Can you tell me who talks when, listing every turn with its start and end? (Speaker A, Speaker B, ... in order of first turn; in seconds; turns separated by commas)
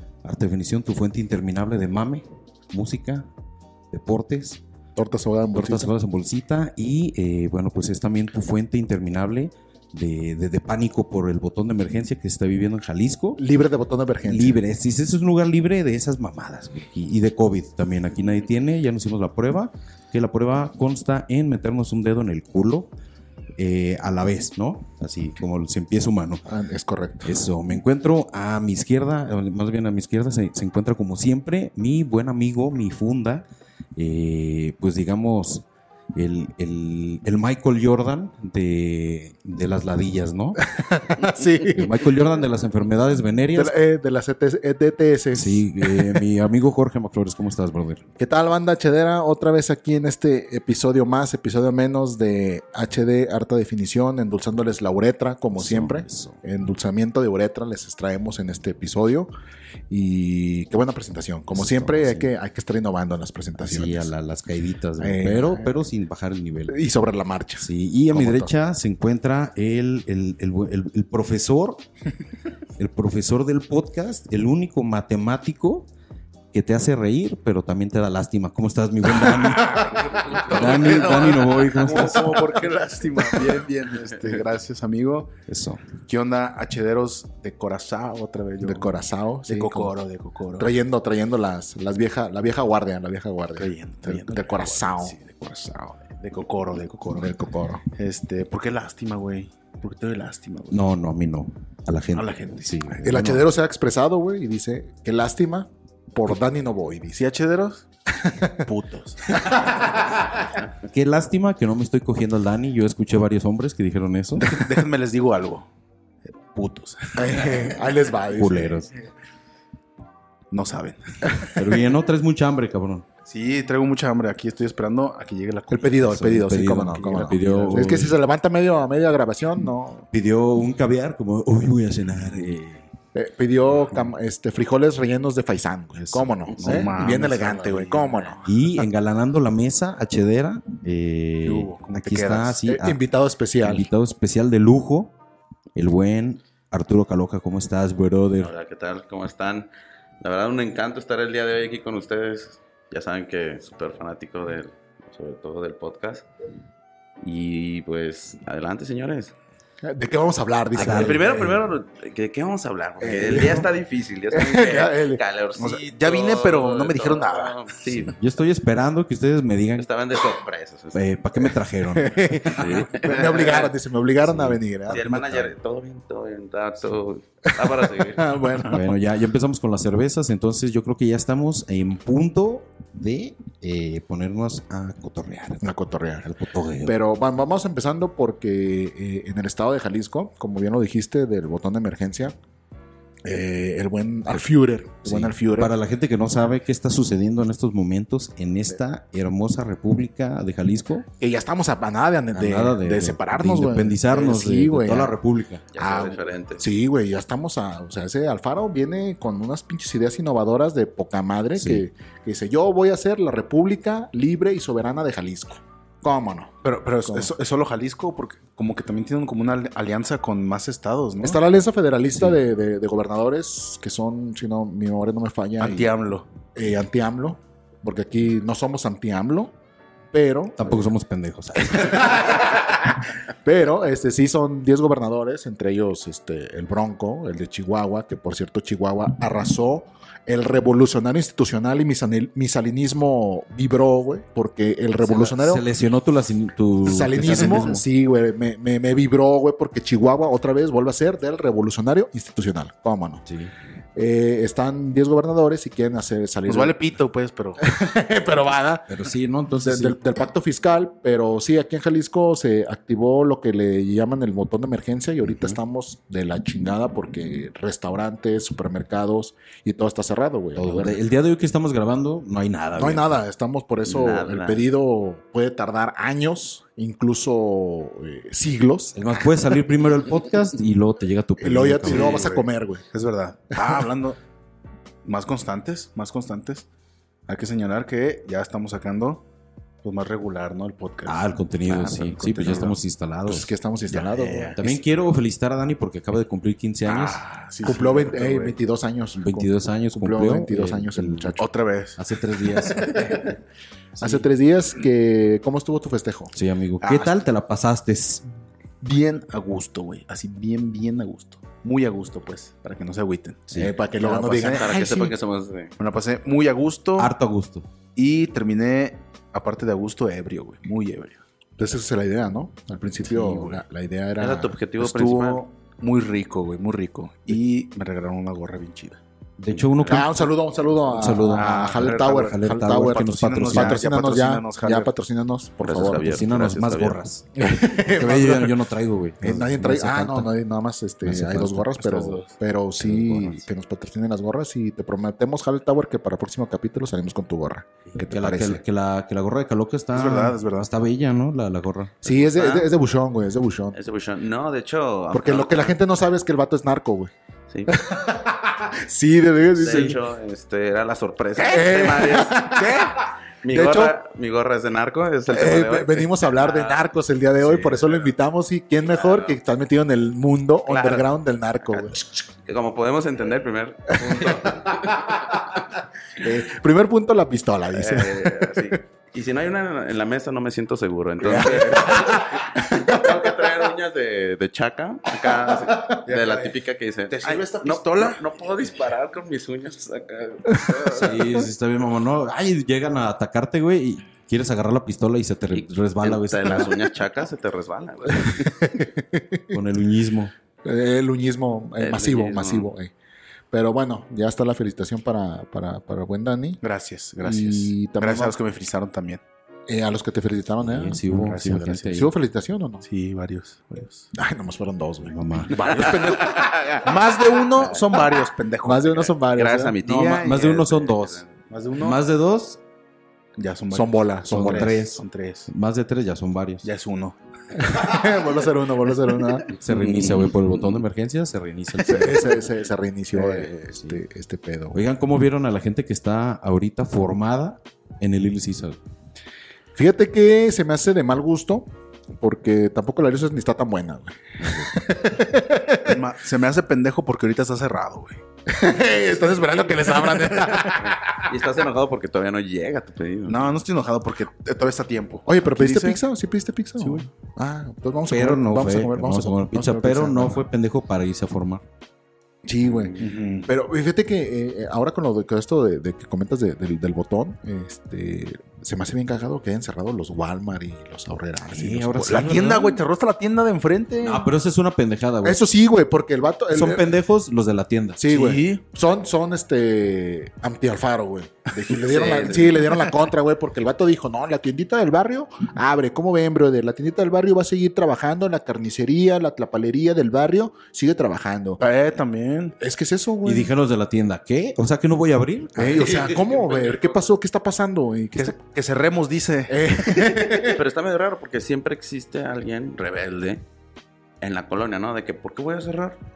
Speaker A: 0.2-3.3, Speaker A: 3.9-4.6, Speaker B: 5.0-5.9, Speaker A: 5.5-13.4, Speaker B: 13.4-14.6, Speaker A: 14.2-22.9, Speaker A: 23.6-26.4, Speaker B: 26.5-27.4, Speaker A: 27.2-33.5, Speaker A: 34.0-35.6, Speaker A: 36.1-40.6, Speaker B: 40.7-42.0, Speaker A: 41.8-43.8, Speaker B: 43.5-46.2, Speaker A: 45.3-48.0, Speaker B: 48.2-59.3, Speaker A: 55.5-56.4, Speaker B: 59.9-64.1, Speaker A: 61.5-62.3, Speaker A: 63.6-66.8, Speaker B: 65.0-65.7, Speaker B: 66.7-68.5, Speaker A: 67.6-71.8, Speaker A: 72.8-75.9, Speaker A: 76.5-82.5, Speaker B: 79.8-80.9, Speaker C: 79.8-85.4, Speaker A: 85.5-85.9, Speaker C: 86.0-90.7, Speaker B: 88.6-89.9, Speaker B: 90.6-95.2, Speaker C: 93.6-97.4, Speaker B: 97.1-97.8, Speaker C: 97.9-100.8, Speaker A: 100.7-103.5, Speaker C: 102.1-103.1, Speaker B: 103.0-107.2, Speaker C: 107.1-107.9, Speaker B: 108.1-108.7, Speaker C: 108.6-109.4, Speaker B: 109.3-110.4, Speaker A: 110.9-114.6, Speaker C: 114.4-115.7, Speaker C: 116.5-117.5, Speaker B: 117.2-118.9, Speaker A: 118.3-118.9, Speaker C: 120.5-121.5, Speaker A: 121.6-123.1, Speaker C: 123.3-126.0, Speaker B: 125.7-130.1, Speaker A: 126.0-128.2, Speaker C: 126.9-128.1, Speaker A: 130.1-132.9, Speaker B: 133.1-138.4, Speaker A: 136.1-137.2, Speaker C: 136.6-138.4, Speaker A: 138.4-143.0, Speaker C: 141.4-142.7, Speaker B: 142.7-143.9, Speaker A: 143.6-145.1, Speaker A: 145.8-148.5, Speaker D: 148.4-149.7, Speaker D: 150.2-156.3, Speaker D: 157.2-159.3, Speaker B: 159.8-161.6, Speaker A: 160.8-161.5, Speaker D: 160.8-168.2, Speaker B: 163.0-163.7, Speaker B: 164.3-165.2, Speaker C: 165.6-167.6, Speaker A: 168.0-169.9, Speaker D: 169.8-171.0, Speaker A: 170.9-172.9, Speaker B: 171.4-175.1, Speaker D: 172.6-173.7, Speaker A: 174.2-175.5, Speaker D: 174.9-178.2, Speaker B: 177.6-179.0, Speaker A: 178.6-185.7, Speaker B: 185.6-186.3, Speaker A: 186.2-187.0, Speaker B: 186.8-192.3, Speaker B: 193.2-195.8, Speaker A: 195.0-201.1, Speaker B: 201.2-205.2, Speaker A: 202.3-205.7, Speaker D: 205.7-206.7, Speaker B: 205.8-216.5, Speaker A: 211.6-211.8, Speaker C: 216.6-221.4, Speaker B: 217.1-217.3, Speaker B: 221.2-225.9, Speaker C: 225.6-226.3, Speaker B: 226.6-229.5, Speaker B: 230.1-230.9, Speaker A: 230.6-232.2, Speaker B: 231.6-245.7, Speaker A: 245.0-247.8, Speaker B: 246.8-253.2, Speaker C: 247.4-247.7, Speaker B: 253.9-256.8, Speaker C: 256.5-257.6, Speaker B: 257.6-259.0, Speaker A: 258.9-260.0, Speaker B: 259.6-271.0, Speaker A: 270.6-273.1, Speaker B: 272.8-279.3, Speaker D: 273.9-274.7, Speaker A: 279.0-282.3, Speaker B: 281.4-282.9, Speaker C: 281.9-284.2, Speaker B: 283.6-283.9, Speaker C: 285.1-286.7, Speaker C: 287.3-289.2, Speaker C: 289.8-292.8, Speaker A: 291.1-293.5, Speaker B: 293.3-294.8, Speaker C: 293.9-294.6, Speaker A: 294.6-297.2, Speaker C: 296.9-298.6, Speaker B: 297.6-301.5, Speaker A: 299.2-301.4, Speaker C: 301.4-302.0, Speaker A: 302.0-303.3, Speaker B: 302.8-303.2, Speaker B: 304.0-306.3, Speaker A: 306.3-308.3, Speaker C: 306.8-307.1, Speaker C: 308.8-314.7, Speaker A: 313.5-313.8, Speaker B: 313.6-315.1, Speaker D: 314.5-315.7, Speaker C: 315.8-317.1, Speaker A: 317.0-317.7, Speaker C: 317.9-321.2, Speaker B: 321.6-324.6, Speaker C: 323.1-323.6, Speaker D: 324.2-325.5, Speaker C: 324.8-329.0, Speaker A: 329.4-330.2, Speaker B: 329.8-336.2, Speaker A: 330.9-333.9, Speaker C: 331.3-334.9, Speaker D: 335.6-337.0, Speaker A: 335.9-340.3, Speaker B: 337.4-338.6, Speaker B: 339.2-348.6, Speaker A: 341.0-341.7, Speaker C: 341.8-342.3, Speaker A: 342.8-343.4, Speaker A: 347.9-352.0, Speaker C: 349.9-350.7, Speaker B: 352.0-353.8, Speaker D: 352.1-352.7, Speaker D: 353.7-355.8, Speaker B: 355.1-357.1, Speaker D: 357.5-357.8, Speaker B: 357.7-360.0, Speaker D: 359.6-362.8, Speaker B: 361.4-363.9, Speaker D: 363.4-366.8, Speaker B: 365.3-372.2, Speaker D: 368.9-369.4, Speaker D: 370.7-371.1, Speaker D: 371.6-371.9, Speaker D: 372.4-375.4, Speaker B: 374.0-378.8, Speaker D: 377.7-391.4, Speaker B: 381.2-383.3, Speaker B: 385.6-386.0, Speaker C: 386.1-386.5, Speaker C: 387.1-388.2, Speaker A: 390.9-397.0, Speaker D: 395.5-398.5, Speaker B: 398.2-399.6, Speaker A: 399.5-400.3, Speaker B: 400.6-402.9, Speaker D: 401.8-402.7, Speaker B: 403.5-406.6, Speaker C: 406.6-409.2, Speaker B: 407.2-408.4, Speaker B: 409.7-411.0, Speaker A: 410.6-412.1, Speaker C: 411.1-412.1, Speaker B: 411.9-412.9, Speaker C: 412.8-414.1, Speaker B: 414.1-415.2, Speaker A: 415.1-415.9, Speaker C: 415.5-419.1, Speaker D: 415.9-416.9, Speaker D: 417.6-418.0, Speaker B: 418.6-419.8, Speaker D: 419.3-421.4, Speaker A: 419.9-421.2, Speaker C: 419.9-420.5, Speaker C: 421.5-422.0, Speaker A: 421.8-422.6, Speaker C: 423.4-425.5, Speaker B: 423.7-424.8, Speaker A: 424.3-426.7, Speaker C: 426.6-427.2, Speaker B: 427.6-429.5, Speaker A: 429.5-432.5, Speaker D: 429.7-430.3, Speaker B: 431.9-434.8, Speaker A: 433.1-434.0, Speaker A: 434.7-438.8, Speaker B: 439.8-446.0, Speaker C: 445.8-448.2, Speaker B: 448.5-451.2, Speaker D: 450.8-453.5, Speaker C: 453.3-456.0, Speaker B: 455.3-460.4, Speaker C: 456.8-457.1, Speaker A: 458.1-461.6, Speaker B: 462.4-472.4, Speaker D: 462.6-463.0, Speaker C: 463.0-463.5, Speaker A: 471.5-472.8, Speaker C: 472.0-474.3, Speaker A: 474.0-475.4, Speaker B: 475.2-476.9, Speaker A: 476.5-478.0, Speaker B: 478.0-491.6, Speaker C: 478.1-478.6, Speaker D: 481.9-482.6, Speaker C: 482.0-482.3, Speaker C: 491.6-492.6, Speaker B: 492.6-493.5, Speaker A: 493.2-495.9, Speaker B: 495.6-498.4, Speaker C: 495.6-496.7, Speaker D: 496.0-497.0, Speaker C: 498.1-499.6, Speaker B: 499.5-500.6, Speaker D: 500.4-503.4, Speaker D: 504.2-506.0